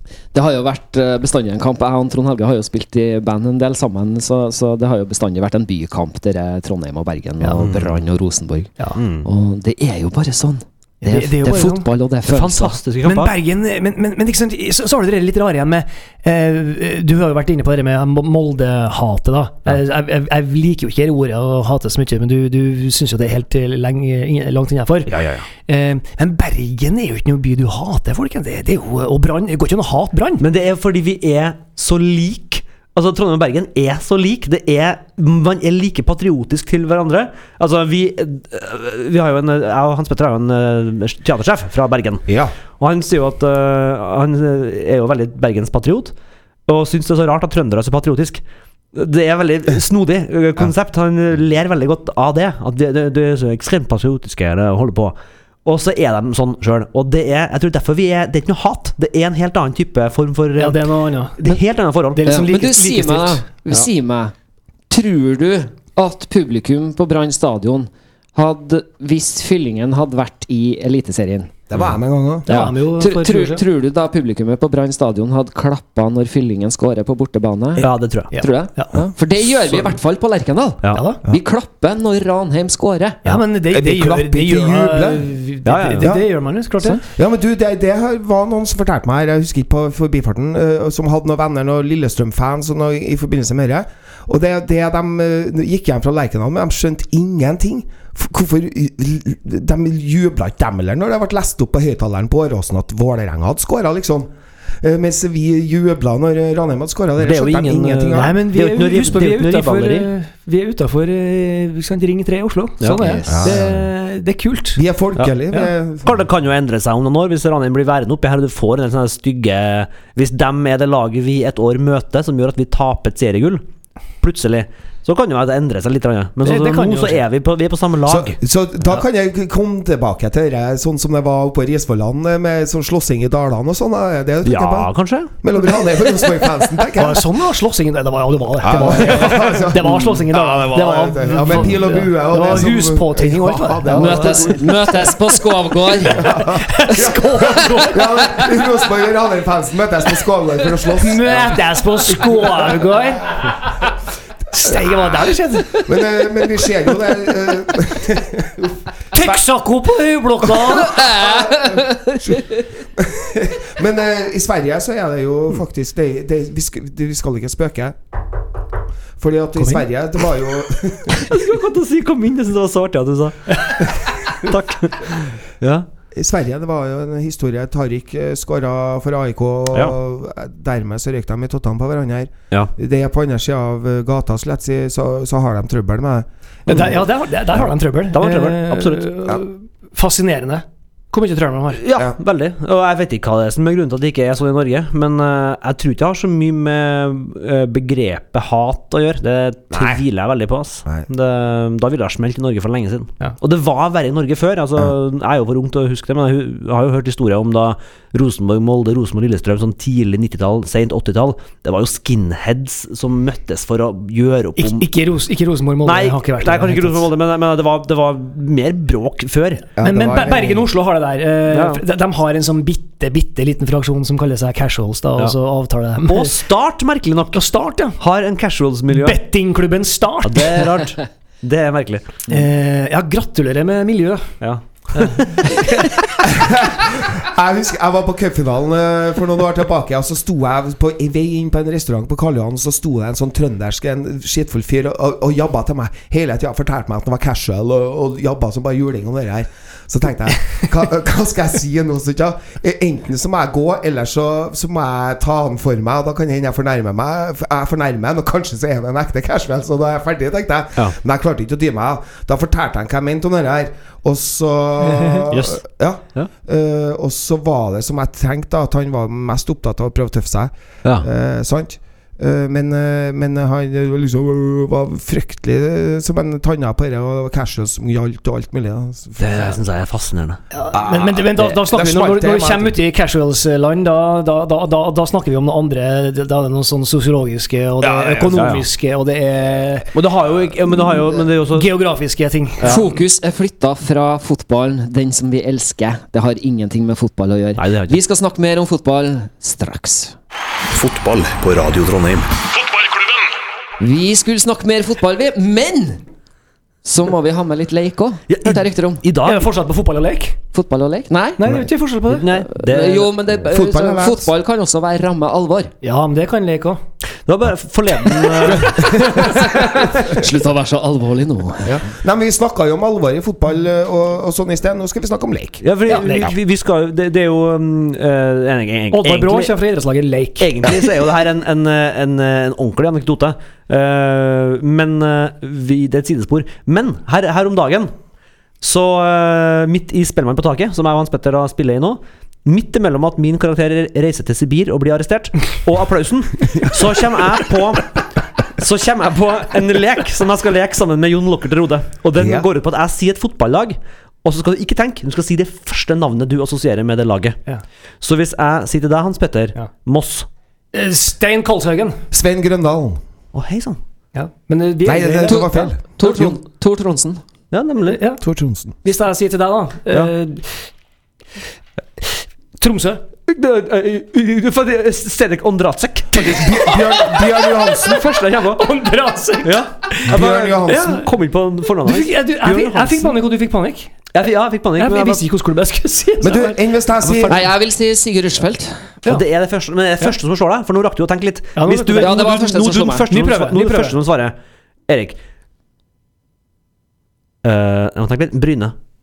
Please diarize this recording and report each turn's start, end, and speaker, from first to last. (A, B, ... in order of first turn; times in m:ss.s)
0:00.3-0:08.7 A
0:07.4-0:07.6 B
0:07.6-0:08.0 C
0:09.0-0:09.3 C
0:09.2-0:12.8 A
0:11.0-0:11.9 B
0:12.3-0:13.3 C
0:13.0-0:25.1 B
0:25.1-0:25.4 C
0:25.6-0:30.4 B
0:30.4-0:42.3 C
0:42.3-0:42.5 D
0:42.8-0:46.1 C
0:46.7-0:48.4 C
0:48.9-1:00.8 C
1:00.6-1:01.6 B
1:01.4-1:02.5 C
1:02.1-1:03.4 B
1:02.2-1:04.3 A
1:04.9-1:11.6 A
1:11.7-1:12.7 D
1:12.5-1:13.6 B
1:12.5-1:23.2 A
1:17.8-1:18.3 C
1:18.3-1:19.0 B
1:20.9-1:21.2 B
1:23.2-1:27.0 B
1:23.7-1:25.2 D
1:25.6-1:26.1 C
1:26.0-1:26.2 D
1:27.0-1:44.3 D
1:44.8-1:48.4 D
1:47.2-1:50.1 C
1:48.1-1:54.8 B
1:52.8-1:53.0 C
1:53.0-1:53.3 A
1:53.3-1:53.8 D
1:54.8-1:56.2 D
1:56.0-2:03.6 C
2:04.2-2:08.4 C
2:06.4-2:07.2 B
2:08.0-2:17.2 D
2:14.4-2:15.3 C
2:16.9-2:25.4 B
2:18.6-2:25.1 D
2:19.0-2:19.5 C
2:23.9-2:26.3 A
2:25.9-2:28.6 B
2:26.0-2:31.6 D
2:30.9-2:33.9 B
2:32.3-2:32.6 D
2:34.5-2:36.0 B
2:35.8-2:39.4 D
2:39.1-2:41.0 B
2:40.7-2:42.4 A
2:41.1-2:48.0 D
2:49.2-2:51.2 D
2:49.6-2:49.8 B
2:51.1-2:55.9 C
2:56.1-3:06.9 D
3:06.7-3:11.8 B
3:08.1-3:09.1 C
3:11.8-3:34.9 C
3:19.7-3:20.0 D
3:34.6-3:37.1 B
3:35.8-3:39.7 C
3:39.8-3:40.7 D
3:39.8-3:46.3 B
3:41.5-3:41.8 C
3:46.0-3:47.4 C
3:47.3-3:48.0 B
3:48.0-3:49.2 C
3:48.9-3:50.7 B
3:50.2-3:52.2 C
3:52.3-3:54.3 B
3:54.4-3:55.5 C
3:54.9-3:55.6 B
3:56.2-4:39.6 D
4:24.9-4:25.2 B
4:25.3-4:25.6 C
4:39.2-4:40.4 C
4:40.5-4:49.9 B
4:40.7-4:42.8 D
4:47.8-4:48.4 D
4:48.3-4:48.6 C
4:49.9-4:51.7 C
4:51.5-4:52.8 B
4:52.6-4:52.9 C
4:52.6-5:00.1 A
4:57.6-4:58.0 C
5:00.7-5:03.3 E
5:03.8-5:06.0 A
5:06.8-5:09.0 A
5:08.3-5:09.5 C
5:09.2-5:10.4 B
5:10.5-5:11.4 A
5:11.4-5:12.3 B
5:12.1-5:13.1 C
5:12.5-5:15.7 A
5:13.4-5:14.3 D
5:15.8-5:16.8 B
5:17.2-5:19.6 C
5:18.4-5:19.6 B
5:18.7-5:19.4 D
5:19.1-5:21.8 A
5:21.6-5:25.6 D
5:25.6-5:29.5 C
5:25.9-5:26.3 B
5:28.9-5:30.5 B
5:30.4-5:37.9 C
5:38.6-5:48.0 C
5:48.6-5:57.4 C
5:52.2-5:52.5 D
5:58.0-6:00.3 C
6:00.7-6:02.0 B
6:02.1-6:03.0 D
6:03.3-6:03.8 C
6:04.1-6:05.6 B
6:04.8-6:06.4 D
6:05.3-6:07.2 A
6:07.5-6:08.0 C
6:07.9-6:08.2 B
6:08.2-6:08.8 D
6:08.8-6:10.7 B
6:12.6-6:13.0 B
6:13.2-6:16.7 C
6:16.1-6:18.0 D
6:16.6-6:20.1 B
6:17.7-6:18.6 C
6:19.4-6:23.1 C
6:20.1-6:21.0 D
6:21.8-6:23.9 B
6:24.1-6:25.2 C
6:24.8-6:26.6 B
6:26.2-6:27.5 D
6:27.0-6:27.5 C
6:27.3-6:28.9 A
6:29.0-6:34.4 C
6:31.6-6:32.4 B
6:32.0-6:33.0 A
6:33.1-6:34.0 B
6:34.9-6:35.2 C
6:37.4-6:38.7 C